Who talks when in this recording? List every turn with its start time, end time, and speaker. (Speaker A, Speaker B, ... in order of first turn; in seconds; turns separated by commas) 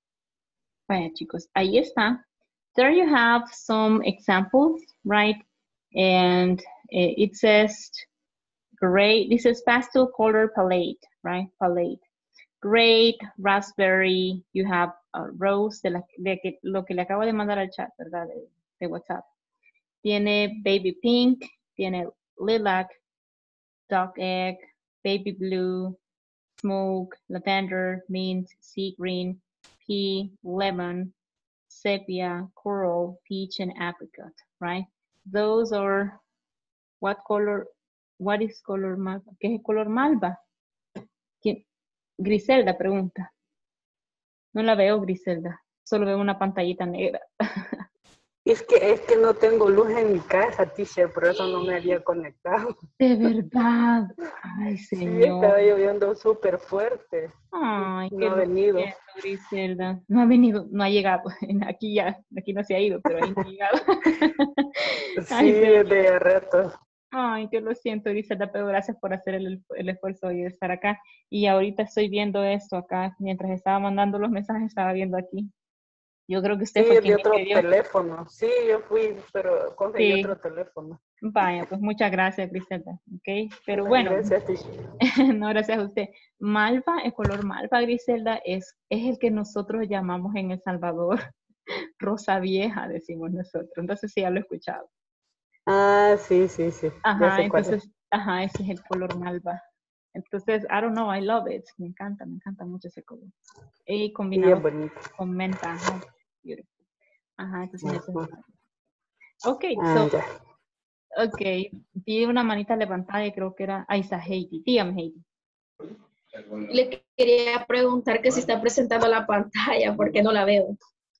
Speaker A: 0.9-2.2, Speaker A: 2.7-5.4, Speaker A: 5.9-8.1, Speaker A: 8.8-12.0, Speaker A: 12.6-19.2, Speaker A: 20.0-22.9, Speaker A: 23.9-26.0, Speaker A: 26.6-31.1, Speaker A: 31.7-36.2, Speaker A: 37.0-40.4, Speaker A: 42.2-43.3, Speaker A: 44.5-47.8, Speaker B: 48.5-52.5, Speaker A: 53.0-55.6, Speaker B: 55.0-55.5, Speaker B: 56.2-57.1, Speaker A: 57.5-65.9, Speaker B: 58.1-58.8, Speaker B: 65.5-66.4, Speaker A: 67.1-75.5, Speaker A: 76.3-77.7, Speaker B: 76.9-78.5, Speaker B: 79.1-80.9, Speaker A: 80.0-80.3, Speaker A: 81.2-84.3, Speaker B: 83.8-84.3, Speaker A: 85.1-91.2, Speaker A: 92.0-94.9, Speaker A: 97.0-99.6, Speaker B: 97.2-97.5, Speaker A: 100.1-103.3, Speaker A: 103.9-106.7, Speaker B: 104.4-104.9, Speaker A: 107.4-108.5, Speaker A: 109.4-110.2, Speaker A: 111.2-115.2, Speaker C: 116.6-120.7